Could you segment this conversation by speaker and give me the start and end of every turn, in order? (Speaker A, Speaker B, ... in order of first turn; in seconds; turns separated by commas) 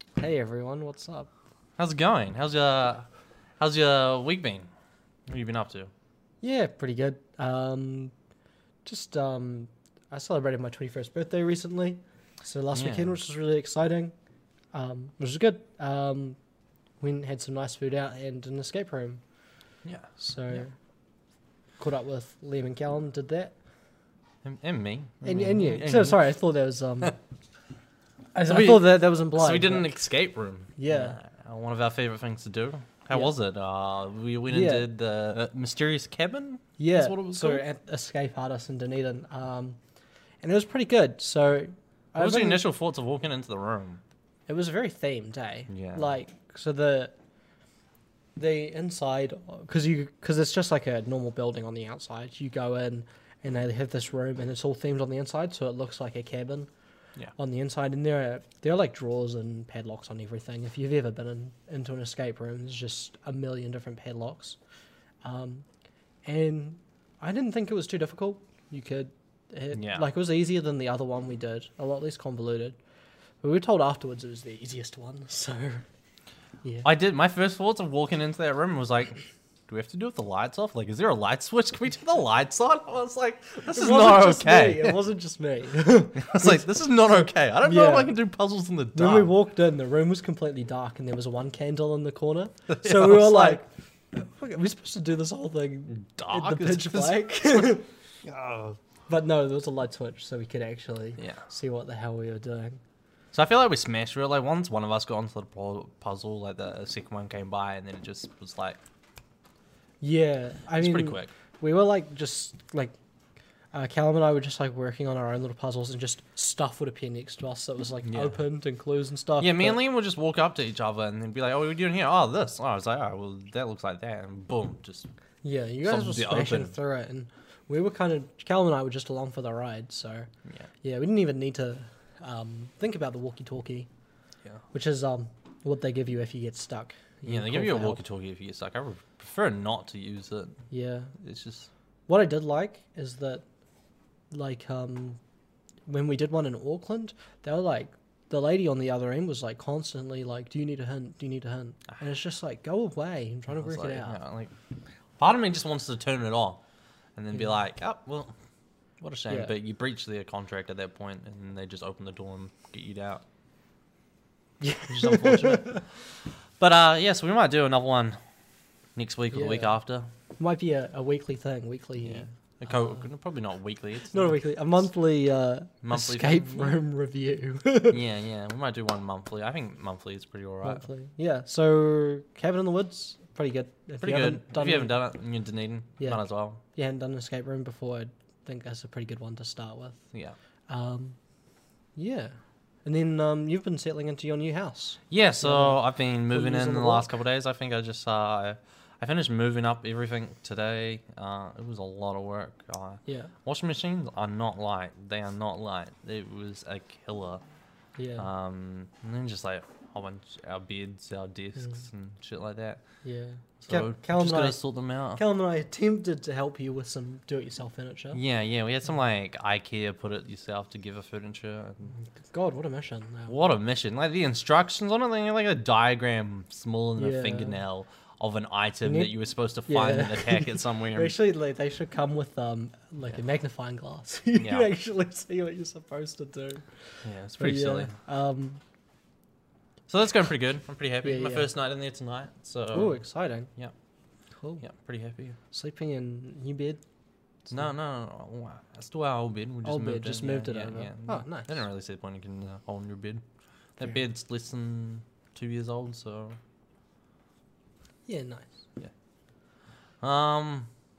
Speaker A: 0.2-1.3, Speaker B: 1.8-3.1, Speaker B: 3.6-4.7, Speaker B: 5.3-5.9, Speaker A: 6.4-8.1, Speaker A: 8.8-14.1, Speaker B: 12.7-13.2, Speaker A: 14.7-16.4, Speaker A: 17.0-19.2, Speaker B: 19.9-20.6, Speaker A: 20.2-20.7, Speaker A: 21.8-23.6, Speaker B: 24.4-26.2, Speaker A: 25.2-27.2, Speaker A: 28.3-29.9, Speaker B: 28.5-37.6, Speaker A: 30.8-31.2, Speaker A: 34.5-34.9, Speaker A: 36.8-39.8, Speaker A: 40.4-42.7, Speaker B: 42.2-44.0, Speaker A: 44.5-47.2, Speaker B: 45.7-46.1, Speaker A: 48.4-56.7, Speaker A: 57.4-64.6, Speaker A: 65.2-65.7, Speaker A: 66.2-72.8, Speaker B: 69.7-70.1, Speaker A: 73.4-75.9, Speaker A: 76.6-76.9, Speaker B: 76.8-85.0, Speaker A: 83.7-88.2, Speaker B: 86.2-89.3, Speaker A: 88.9-97.9, Speaker B: 92.7-93.6, Speaker B: 95.9-98.8, Speaker A: 99.1-102.8, Speaker B: 103.3-108.8, Speaker A: 110.0-113.0, Speaker B: 110.8-111.3, Speaker A: 113.7-119.8, Speaker B: 118.1-118.4, Speaker B: 119.4-125.1, Speaker A: 125.4-130.3, Speaker B: 125.8-126.7, Speaker A: 130.8-133.9, Speaker A: 134.7-138.0, Speaker B: 137.3-140.6, Speaker A: 140.7-141.1, Speaker B: 141.2-141.7, Speaker A: 142.1-143.4, Speaker A: 144.3-145.2, Speaker A: 145.9-154.2, Speaker B: 153.5-154.6, Speaker B: 155.2-156.6, Speaker B: 157.2-158.3, Speaker B: 159.0-163.2, Speaker A: 159.3-159.5, Speaker A: 164.6-165.8, Speaker B: 164.9-165.9, Speaker B: 166.6-168.2, Speaker B: 168.9-170.1, Speaker A: 169.3-169.8, Speaker A: 170.4-172.3, Speaker B: 172.0-174.4, Speaker A: 174.1-178.0, Speaker B: 175.8-176.8, Speaker B: 177.9-180.9, Speaker A: 180.6-185.0, Speaker B: 184.0-186.6, Speaker A: 186.0-190.1, Speaker A: 190.7-191.2, Speaker A: 192.0-195.8, Speaker B: 195.1-207.4, Speaker A: 196.3-197.1, Speaker A: 203.1-203.3, Speaker A: 208.0-208.3, Speaker B: 208.2-212.8, Speaker A: 213.0-214.6, Speaker B: 213.6-215.2, Speaker A: 215.2-218.2, Speaker B: 218.1-221.9, Speaker A: 221.9-223.4, Speaker B: 223.3-231.2, Speaker A: 227.0-227.6, Speaker A: 228.8-229.2, Speaker A: 229.7-238.6, Speaker B: 234.4-234.7, Speaker B: 237.0-237.9, Speaker B: 239.9-243.0, Speaker A: 241.0-241.5, Speaker A: 242.7-243.5, Speaker A: 244.3-244.6, Speaker B: 244.6-245.4, Speaker A: 245.5-246.8, Speaker B: 247.5-253.2, Speaker A: 249.7-251.6, Speaker B: 253.8-256.4, Speaker A: 258.1-258.5, Speaker B: 260.0-260.7